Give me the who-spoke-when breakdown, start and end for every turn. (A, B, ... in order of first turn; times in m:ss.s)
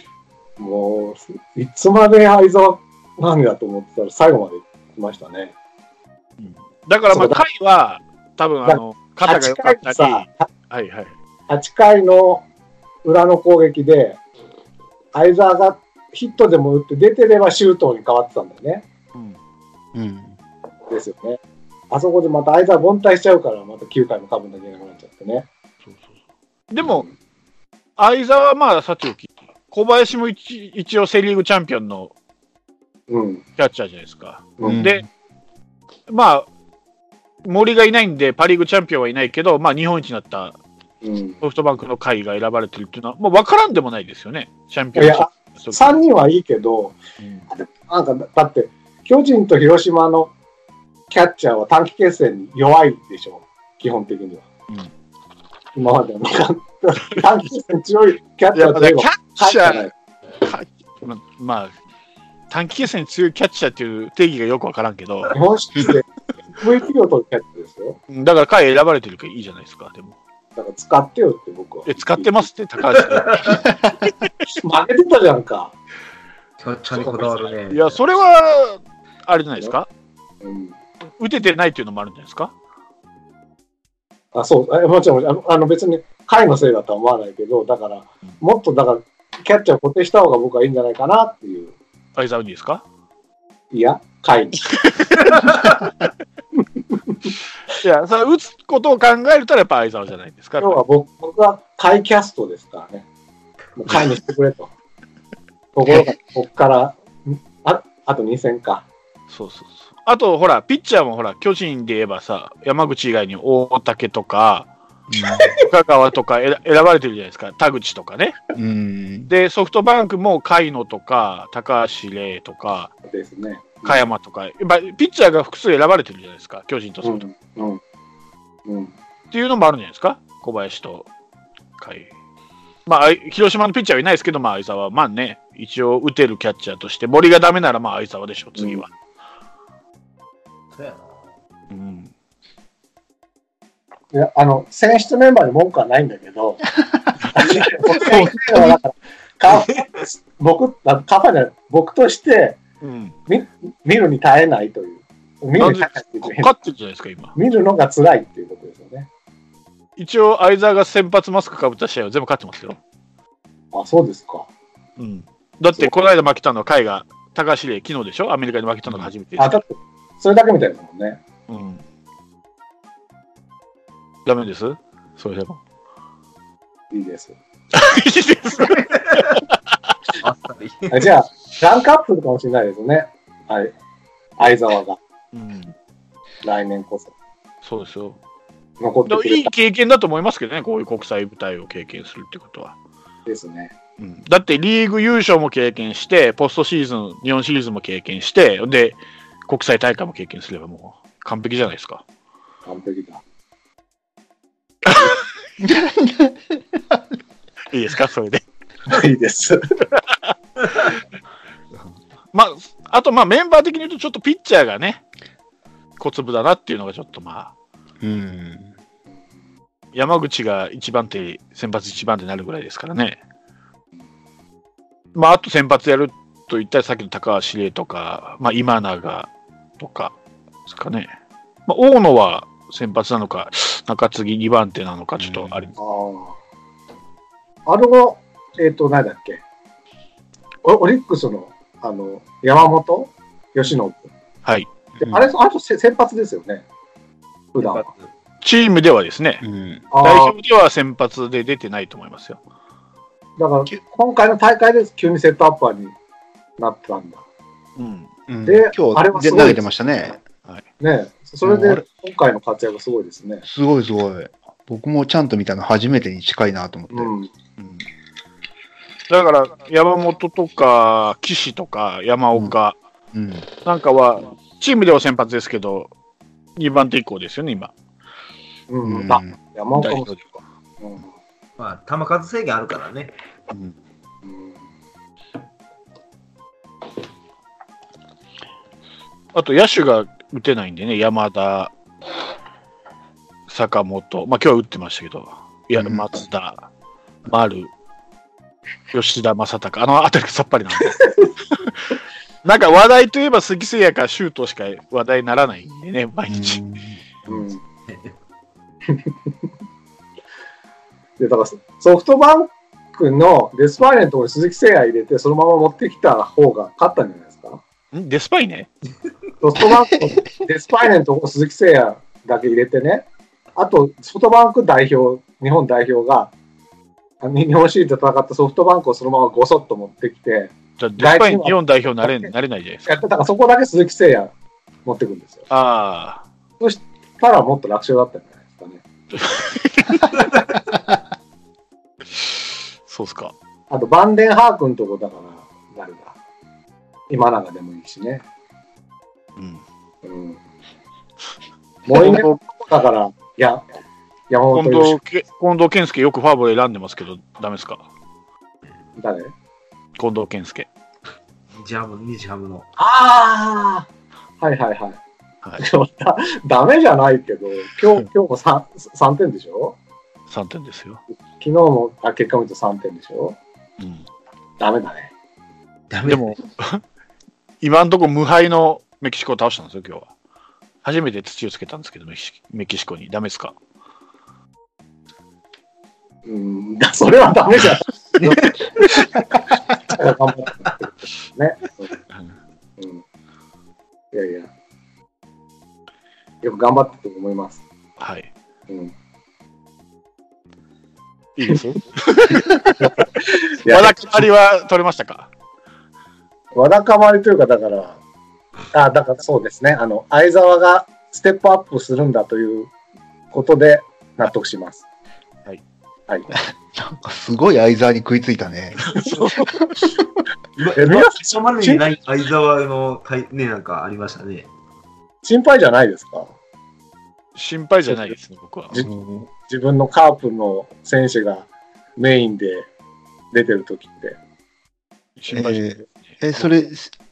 0:00.6-0:05.5 A
0:06.4-0:11.1 B
0:07.1-0:07.4 A
0:08.6-0:10.5 A
0:11.5-0:12.4 A
0:13.0-0:14.2 A
0:15.1-0:18.8 A
0:19.9-0:20.4 C
0:20.9-0:21.4 A
0:21.9-0:25.5 A
0:26.7-0:27.0 B
0:26.8-0:27.1 A
0:28.0-0:32.1 B
0:33.1-0:33.4 A
0:33.6-0:35.0 B
0:34.6-0:35.0 C
0:36.1-0:36.4 B
0:37.4-0:40.6 B
0:41.0-0:41.4 A
0:41.4-0:46.0 B
0:44.9-0:47.0 A
0:47.2-0:47.5 B
0:47.5-0:50.3 A
0:51.1-0:54.5 A
0:55.8-0:59.9 A
0:58.5-1:01.7 B
1:02.5-1:05.4 B
1:05.3-1:08.0 A
1:08.1-1:10.2 B
1:10.6-1:12.5 A
1:11.8-1:13.7 B
1:13.0-1:13.6 D
1:14.6-1:15.7 A
1:16.6-1:18.2 D
1:17.0-1:19.9 B
1:20.4-1:20.8 A
1:21.2-1:22.5 B
1:24.3-1:31.7 A
1:32.2-1:32.8 B
1:33.7-1:34.7 A
1:34.7-1:35.7 B
1:35.3-1:35.7 D
1:37.1-1:37.3 A
1:37.8-1:40.8 B
1:40.6-1:43.0 A
1:43.8-1:44.7 A
1:45.7-1:48.8 A
1:49.3-1:54.7 B
1:55.1-1:55.5 C
1:55.6-1:58.4 B
1:58.6-1:59.3 C
1:59.3-2:02.9 B
2:03.1-2:04.0 A
2:03.8-2:07.2 B
2:07.0-2:07.8 A
2:08.6-2:08.9 A
2:09.3-2:11.1 B
2:11.8-2:12.1 B
2:12.8-2:18.9 B
2:18.6-2:18.8 A
2:20.7-2:21.3 D
2:21.7-2:22.1 B
2:24.1-2:26.6 A
2:27.3-2:32.6 A
2:28.1-2:28.7 C
2:32.8-2:33.1 B
2:33.3-2:36.5 A
2:35.6-2:37.3 B
2:37.4-2:39.1 A
2:40.0-2:42.8 B
2:43.7-2:44.5 A
2:45.0-2:49.6 B
2:49.4-2:51.2 A
2:51.5-2:51.8 B
2:54.2-2:55.6 B
2:56.9-2:57.3 A
2:57.7-2:59.4 B
2:58.8-2:59.3 D
3:00.2-3:01.1 D
3:00.9-3:03.7 A
3:04.4-3:05.0 A
3:05.3-3:05.7 B
3:06.4-3:07.1 A
3:07.6-3:08.2 B
3:08.8-3:09.5 A
3:09.1-3:12.7 B
3:13.3-3:13.7 A
3:14.0-3:22.0 B
3:22.6-3:23.2 A
3:24.8-3:25.1 B
3:25.6-3:27.0 C
3:27.7-3:28.4 B
3:28.9-3:29.6 A
3:30.0-3:30.3 B
3:32.3-3:35.0 B
3:36.0-3:37.5 B
3:38.0-3:38.7 C
3:39.9-3:43.2 B
3:45.1-3:50.1 B
3:50.6-3:51.1 B
3:51.7-3:55.7 B
3:55.2-3:55.7 C
3:55.8-3:56.4 A
3:57.6-3:59.4 A
4:00.6-4:04.1 A
4:05.0-4:05.3 C
4:05.0-4:06.6 A
4:07.5-4:07.8 A
4:07.6-4:08.1 D
4:08.4-4:09.4 B
4:09.4-4:09.8 C
4:09.9-4:10.3 A
4:10.0-4:12.4 B
4:13.4-4:15.9 A
4:16.6-4:17.2 A
4:17.8-4:18.1 B
4:18.3-4:20.2 C
4:18.4-4:19.6 A
4:20.8-4:23.4 A
4:21.4-4:21.8 C
4:23.4-4:27.1 C
4:26.9-4:27.3 A
4:27.6-4:27.8 B
4:29.1-4:32.8 B
4:33.1-4:33.5 C
4:33.6-4:35.9 B
4:36.6-4:37.7 B
4:38.7-4:41.1 A
4:38.8-4:39.4 C
4:39.7-4:40.2 B
4:41.6-4:43.1 D
4:44.2-4:44.6 A
4:49.3-4:51.7 B
4:53.5-4:56.7 B
4:57.2-4:57.7 B
4:58.9-5:01.0 B
5:02.4-5:06.6 B
5:06.3-5:07.0 C
5:07.3-5:07.6 A
5:07.9-5:08.1 D
5:11.2-5:17.6 A
5:17.9-5:18.7 B
5:19.4-5:26.3 A
5:27.2-5:32.3 A
5:30.8-5:33.0 B
5:32.8-5:34.3 A
5:34.8-5:35.4 A
5:35.5-5:36.2 B
5:36.6-5:38.8 A
5:39.1-5:40.2 B
5:42.9-5:43.3 B
5:43.7-5:46.1 A
5:47.1-5:48.2 A
5:49.4-5:49.6 B
5:50.0-5:50.4 A
5:51.9-5:53.6 A
5:51.9-5:52.4 B
5:54.3-5:55.0 A
5:54.5-5:57.8 B
5:59.0-5:59.3 A
6:00.0-6:00.7 B
6:01.5-6:02.7 D
6:02.8-6:03.9 A
6:04.4-6:05.0 A
6:05.6-6:09.8 A
6:10.3-6:11.0 B
6:11.4-6:13.4 A
6:13.8-6:14.0 B
6:14.6-6:15.1 A
6:16.0-6:16.8 B
6:17.6-6:20.1 B
6:20.8-6:23.5 B
6:26.2-6:29.0 A
6:28.2-6:28.4 D
6:29.9-6:31.9 A
6:34.1-6:34.5 A
6:36.4-6:37.6 A
6:38.0-6:38.3 B
6:41.4-6:42.9 B
6:42.8-6:44.2 A
6:43.6-6:45.3 B
6:46.5-6:48.0 A
6:48.7-6:52.7 A
6:53.3-6:54.8 A
6:56.3-6:59.2 C
6:58.9-6:59.5 B
7:00.6-7:04.5 D
7:00.7-7:01.8 A
7:05.2-7:06.3 A
7:07.4-7:08.8 B
7:08.8-7:09.3 C
7:09.5-7:12.7 A
7:13.3-7:14.2 A
7:15.2-7:16.5 B
7:15.3-7:16.9 C